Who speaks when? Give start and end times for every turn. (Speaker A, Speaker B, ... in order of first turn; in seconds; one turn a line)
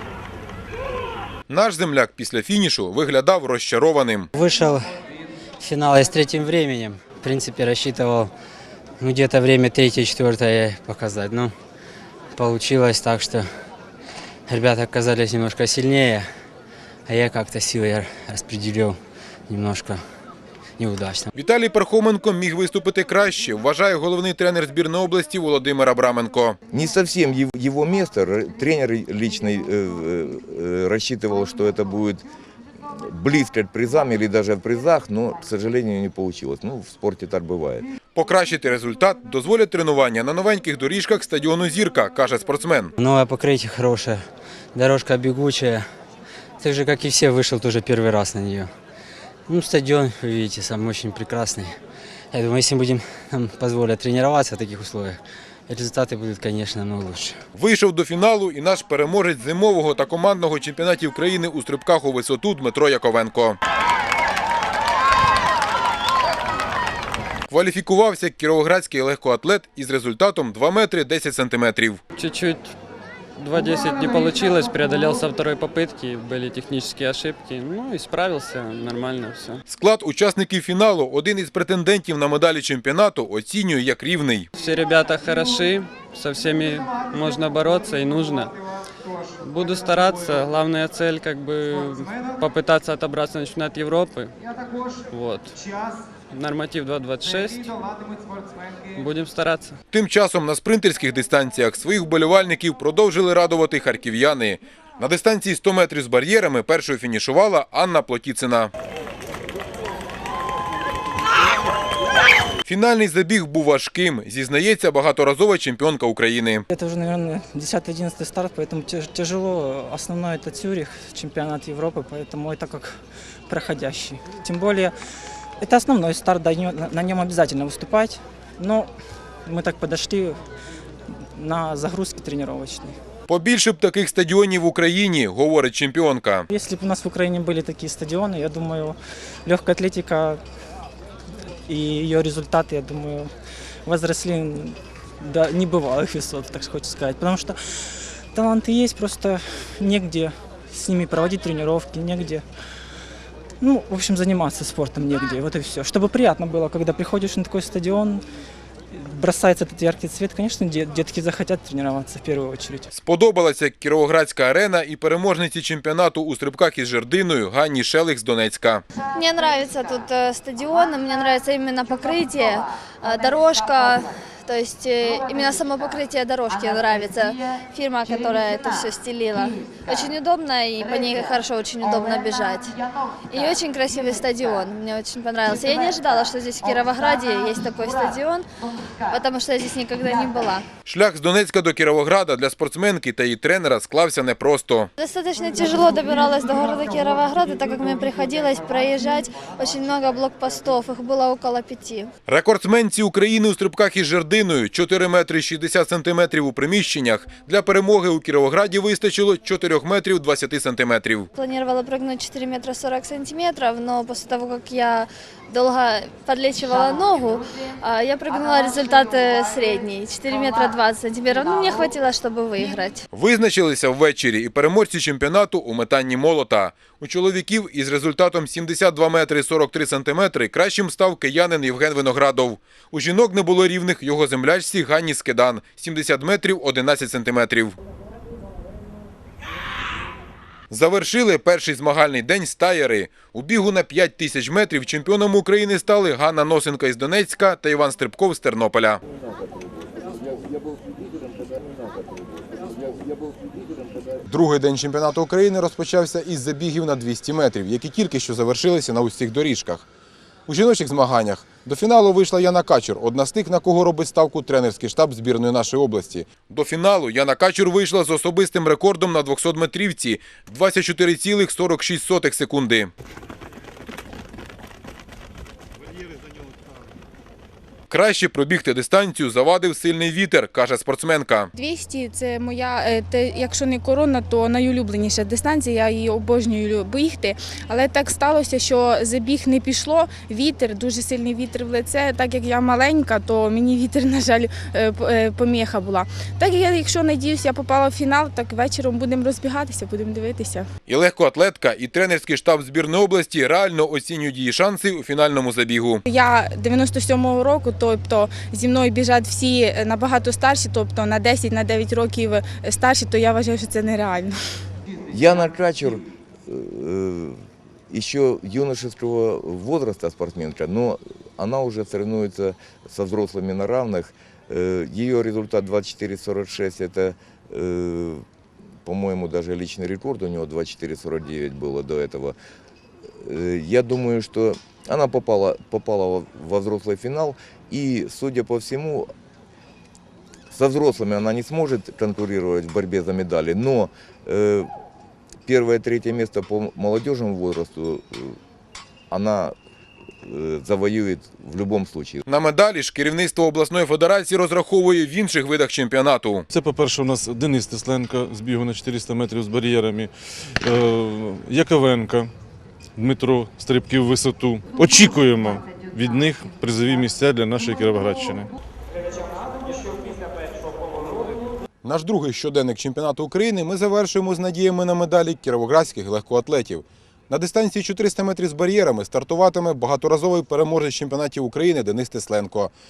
Speaker A: 1.5-4.3
Speaker B: 4.3-4.9
Speaker B: 5.6-8.3
Speaker B: 9.0-11.5
Speaker B: 12.3-13.5
Speaker B: 14.5-16.3
Speaker B: 17.1-20.0
Speaker B: 20.8-21.3
Speaker A: 21.3-26.6
Speaker C: 26.7-32.2
Speaker C: 32.9-37.9
Speaker A: 38.1-42.9
Speaker B: 43.0-44.2
Speaker B: 44.7-45.8
Speaker B: 46.6-48.7
Speaker B: 49.5-51.7
Speaker B: 52.3-57.4
Speaker A: 57.5-63.6
Speaker A: 67.5-72.0
Speaker D: 72.1-72.7
Speaker D: 73.3-79.6
Speaker A: 79.7-84.5
Speaker D: 84.5-88.6
Speaker D: 89.4-94.3
Speaker D: 95.1-95.6
Speaker D: 96.3-97.9
Speaker D: 98.9-99.8
Speaker A: 99.9-108.7
Speaker A: 112.6-116.6
Speaker E: 116.7-122.9
Speaker E: 123.5-124.9
Speaker E: 125.6-128.9
Speaker E: 129.4-130.4
Speaker E: 131.1-133.0
Speaker A: 133.3-136.5
Speaker E: 136.5-140.4
Speaker E: 141.7-143.3
Speaker E: 143.8-152.4
Speaker E: 153.6-158.2
Speaker E: 158.9-162.9
Speaker A: 162.9-168.8
Speaker F: 169.1-182.8
Speaker F: 183.3-188.4
Speaker F: 189.1-190.7
Speaker A: 190.8-194.9
Speaker F: 195.0-202.1
Speaker A: 202.3-211.3
Speaker F: 211.4-223.0
Speaker A: 223.1-237.8
Speaker A: 240.7-249.0
Speaker A: 254.3-259.9
Speaker A: 260.5-272.9
Speaker A: 277.9-281.5
Speaker G: 281.5-300.7
Speaker A: 300.9-306.0
Speaker G: 306.1-314.4
Speaker C: 315.1-328.2
Speaker C: 328.8-332.4
Speaker C: 333.2-339.1
Speaker C: 340.5-344.7
Speaker C: 345.4-348.4
Speaker C: 349.1-349.5
Speaker C: 350.2-352.2
Speaker A: 352.2-356.4
Speaker H: 356.5-362.3
Speaker H: 362.9-368.5
Speaker A: 371.8-382.7